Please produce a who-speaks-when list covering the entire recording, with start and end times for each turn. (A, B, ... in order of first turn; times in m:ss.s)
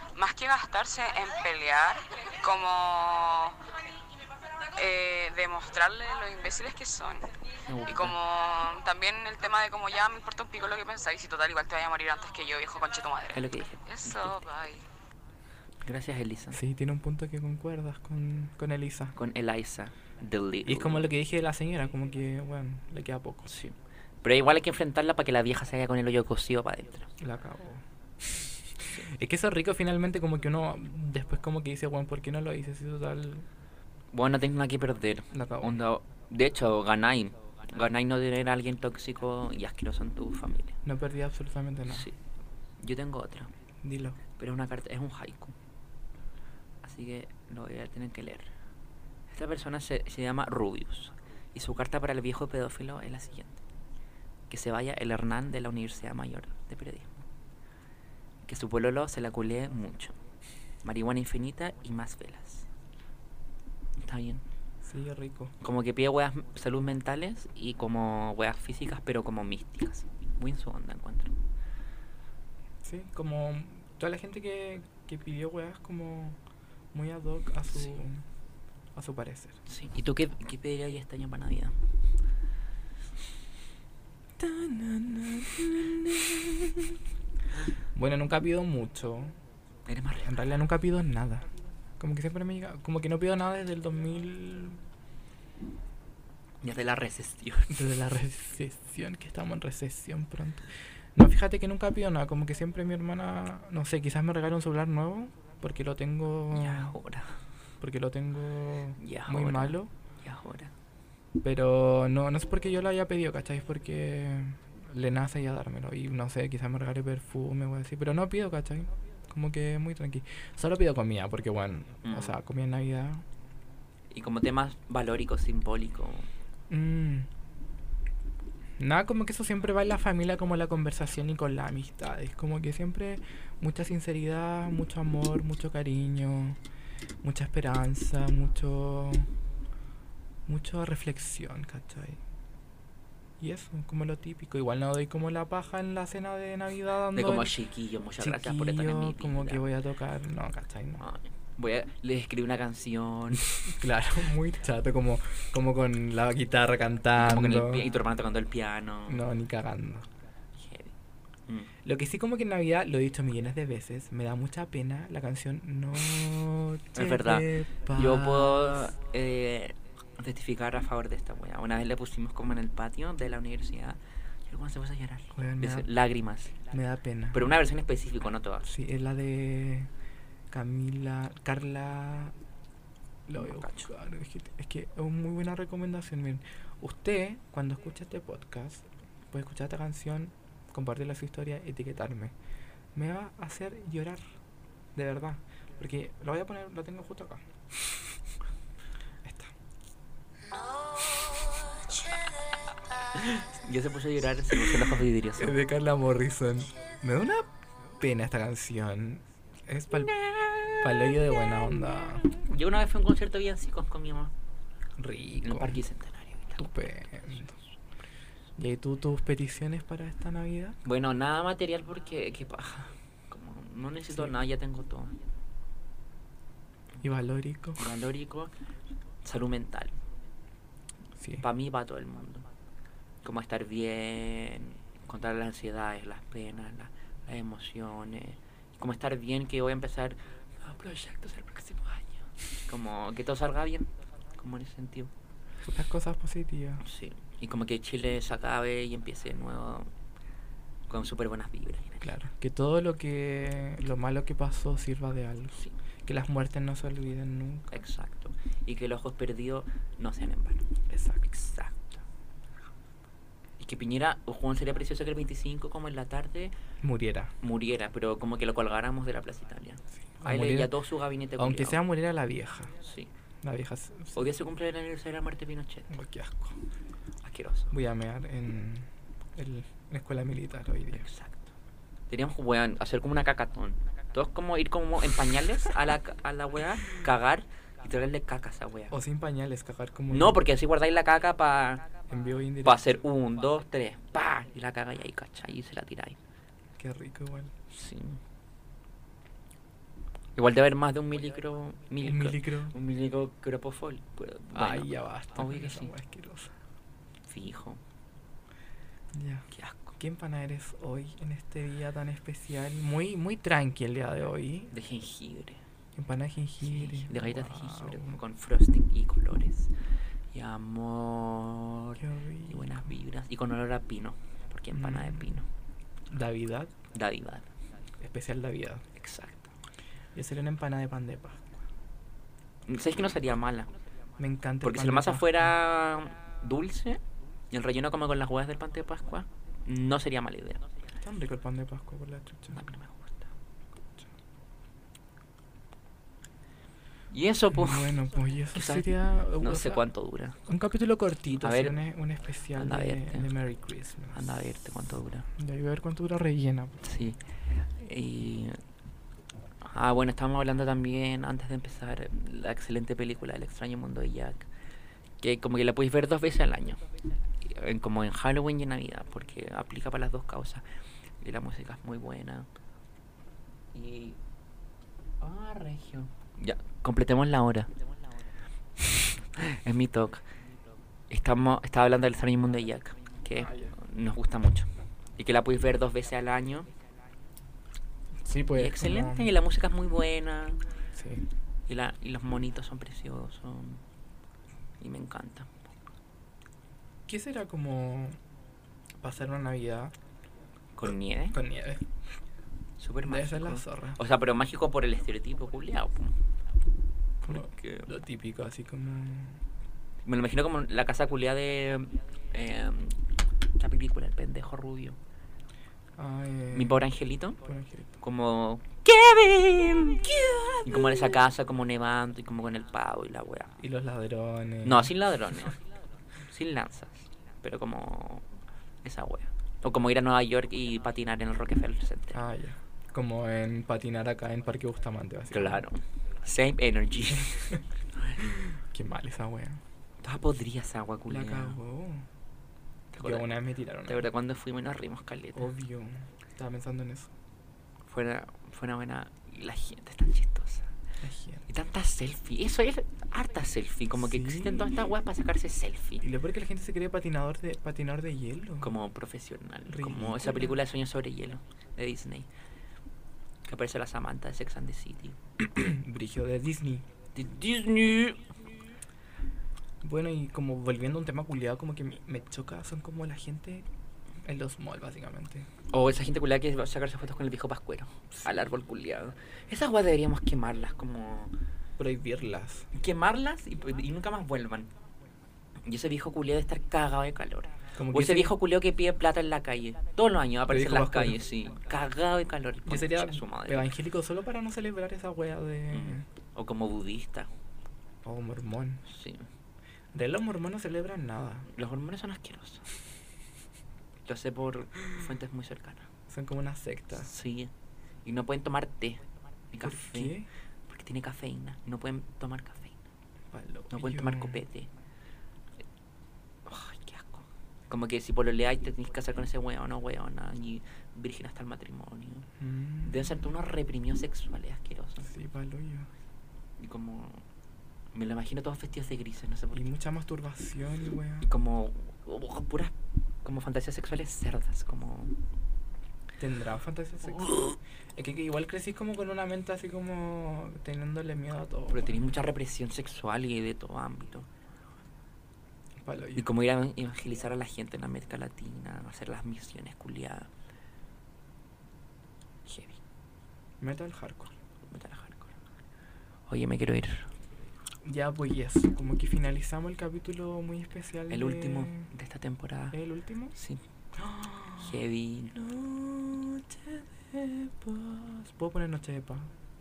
0:00.2-0:03.7 A
0:04.7-0:07.3 A
0:07.7-0:08.2 B
0:07.8-0:14.8 A
0:13.3-0:14.3 B
0:15.8-0:16.6 B
0:16.5-0:19.2 C
0:19.2-0:21.1 B
0:20.6-0:23.5 C
0:23.4-0:27.1 B
0:27.2-0:33.5 C
0:34.1-0:40.8 B
0:35.3-0:35.8 C
0:40.8-0:42.1 C
0:41.9-0:42.1 B
0:42.8-0:43.5 B
0:43.8-0:44.2 C
0:44.4-0:45.5 B
0:46.8-0:48.5 B
0:49.3-0:53.6 B
0:54.5-0:57.2 B
0:58.4-1:00.1 B
1:00.8-1:02.7 B
1:04.0-1:04.4 B
1:04.8-1:05.5 C
1:05.6-1:11.3 B
1:12.8-1:16.4 C
1:16.9-1:18.2 C
1:18.9-1:19.6 C
1:19.6-1:21.7 B
1:24.4-1:27.0 C
1:27.9-1:29.3 C
1:29.9-1:30.4 B
1:30.2-1:31.5 C
1:32.0-1:34.8 C
1:36.6-1:37.8 B
1:37.7-1:47.0 C
1:46.5-1:47.3 B
1:47.8-1:49.9 C
1:49.0-1:50.7 B
1:51.4-2:03.2 C
2:02.0-2:02.4 B
2:04.1-2:06.3 B
2:06.7-2:07.3 C
2:08.8-2:16.6 C
2:17.2-2:19.3 C
2:20.4-2:22.2 C
2:23.4-2:27.5 C
2:27.1-2:29.6 B
2:28.2-2:31.0 C
2:31.0-2:33.5 B
2:33.6-2:37.8 C
2:37.2-2:39.2 B
2:39.1-2:40.1 C
2:40.6-2:40.9 B
2:41.8-2:48.9 C
2:46.9-2:56.5 B
2:55.3-2:55.9 C
2:56.7-2:57.5 C
2:57.3-2:58.7 B
2:58.6-2:59.9 C
3:00.5-3:02.3 C
3:03.3-3:12.3 C
3:03.4-3:03.9 B
3:12.9-3:14.3 C
3:14.9-3:17.4 C
3:19.2-3:19.5 C
3:23.1-3:25.6 B
3:25.4-3:30.2 C
3:30.1-3:31.2 B
3:30.7-3:32.3 C
3:32.3-3:34.3 B
3:35.0-3:35.8 C
3:35.4-3:37.6 B
3:36.6-3:37.5 C
3:38.6-3:40.8 C
3:40.8-3:45.1 B
3:47.0-3:47.8 C
3:47.8-3:48.5 B
3:49.2-3:50.0 B
3:51.2-3:51.4 C
3:51.4-3:52.4 B
3:53.2-4:05.1 B
4:05.6-4:06.8 C
4:06.8-4:09.9 B
4:10.9-4:12.1 B
4:12.0-4:17.7 C
4:17.7-4:20.6 B
4:20.9-4:21.2 C
4:21.2-4:21.9 B
4:23.6-4:26.5 B
4:26.8-4:27.3 C
4:27.4-4:31.8 B
4:30.2-4:30.8 C
4:31.4-4:32.7 C
4:32.8-4:33.1 B
4:33.4-4:34.3 C
4:34.1-4:35.9 B
4:35.9-4:36.6 C
4:37.2-4:37.7 B
4:37.7-4:41.1 C
4:40.9-4:41.5 B
4:42.1-4:49.0 B
4:48.9-4:50.4 C
4:50.1-4:51.9 B
4:52.1-4:53.0 C
4:52.6-4:56.2 B
4:56.8-4:57.5 C
4:57.7-4:58.2 B
5:00.4-5:05.9 B
5:02.0-5:02.7 C
5:04.5-5:06.5 C
5:07.2-5:07.8 B
5:09.1-5:09.5 C
5:09.5-5:10.0 B
5:10.0-5:14.7 C
5:14.7-5:15.6 B
5:15.9-5:18.2 C
5:16.6-5:19.7 B
5:20.3-5:25.4 B
5:22.0-5:22.9 C
5:24.7-5:25.3 C
5:26.1-5:26.7 C
5:26.9-5:27.5 B
5:28.0-5:28.8 C
5:28.9-5:29.5 B
5:30.1-5:31.6 C
5:32.7-5:33.7 B
5:34.2-5:35.5 C
5:34.6-5:40.6 B
5:41.0-5:42.6 C
5:42.5-5:43.3 B
5:47.1-5:47.9 B
5:47.5-5:49.8 C
5:48.5-5:48.9 B
5:49.4-5:50.4 B
5:50.4-5:54.2 C
5:51.4-5:51.8 B
5:52.6-5:53.3 B
5:54.1-5:55.3 B
5:55.4-5:56.8 C
5:56.8-5:57.2 B
5:57.7-5:58.6 B
5:59.6-6:04.5 B
6:05.2-6:06.8 B
6:07.4-6:10.6 B
6:11.2-6:12.5 B
6:13.7-6:14.2 B
6:15.2-6:17.7 B
6:19.2-6:20.2 B
6:21.1-6:26.7 B
6:23.4-6:23.7 C
6:28.2-6:29.3 C
6:28.5-6:30.6 B
6:31.0-6:31.2 C
6:31.7-6:33.8 B
6:34.8-6:35.6 B
6:37.1-6:38.2 C
6:39.0-6:39.9 C
6:40.8-6:41.4 B
6:41.3-6:41.9 C
6:42.8-6:46.1 B
6:43.0-6:44.0 C
6:47.2-6:47.9 B
6:47.2-6:49.4 C
6:50.0-6:53.0 B
6:53.6-6:55.0 B
6:56.0-6:56.9 C
6:56.5-6:57.4 B
6:57.4-6:58.0 C
6:58.0-7:03.6 B
7:00.1-7:01.1 C
7:03.6-7:04.9 C
7:04.6-7:05.6 B
7:06.3-7:08.3 B
7:08.8-7:12.2 B
7:12.1-7:15.6 C
7:15.3-7:18.3 B
7:17.3-7:17.6 C
7:18.2-7:19.6 C
7:20.0-7:21.6 B
7:21.1-7:22.1 C
7:22.9-7:23.3 B
7:23.0-7:24.1 C
7:23.8-7:25.5 B
7:25.3-7:27.1 C
7:27.8-7:30.7 B
7:31.0-7:31.4 C
7:31.5-7:36.0 B
7:33.9-7:34.8 C
7:36.0-7:38.7 C
7:38.6-7:42.3 B
7:39.7-7:40.6 C
7:43.4-7:45.2 B
7:45.4-7:46.8 C
7:47.1-7:48.4 B
7:49.8-7:53.7 C
7:54.2-7:55.5 C
7:55.7-8:01.3 B
7:58.1-7:58.5 C
8:01.8-8:02.7 C
8:02.7-8:04.7 B
8:05.6-8:13.7 B
8:07.7-8:08.3 C
8:10.4-8:11.2 C
8:12.6-8:16.0 C
8:15.7-8:17.3 B
8:18.0-8:18.8 C
8:18.8-8:19.3 B
8:19.9-8:21.5 C
8:21.5-8:22.6 B
8:24.0-8:25.9 B
8:26.1-8:27.1 C
8:26.9-8:27.5 B
8:28.0-8:30.1 B
8:29.6-8:30.3 C
8:30.7-8:32.8 B
8:33.3-8:34.4 C
8:33.7-8:34.7 B
8:36.4-8:42.3 B
8:42.4-8:43.2 C
8:42.8-8:45.1 B
8:45.0-8:45.9 C
8:46.6-8:47.2 B
8:47.9-8:49.6 B
8:49.5-8:51.3 C
8:51.2-8:55.2 B
8:56.2-9:02.2 C
9:01.7-9:04.3 B
9:05.8-9:06.3 C
9:06.1-9:10.3 B
9:12.4-9:12.8 B
9:13.6-9:14.3 C
9:14.7-9:15.3 B
9:16.3-9:17.1 B
9:17.8-9:21.9 C
9:21.1-9:22.8 B
9:22.7-9:23.3 C
9:23.3-9:23.6 B
9:23.9-9:29.3 C
9:24.6-9:25.3 B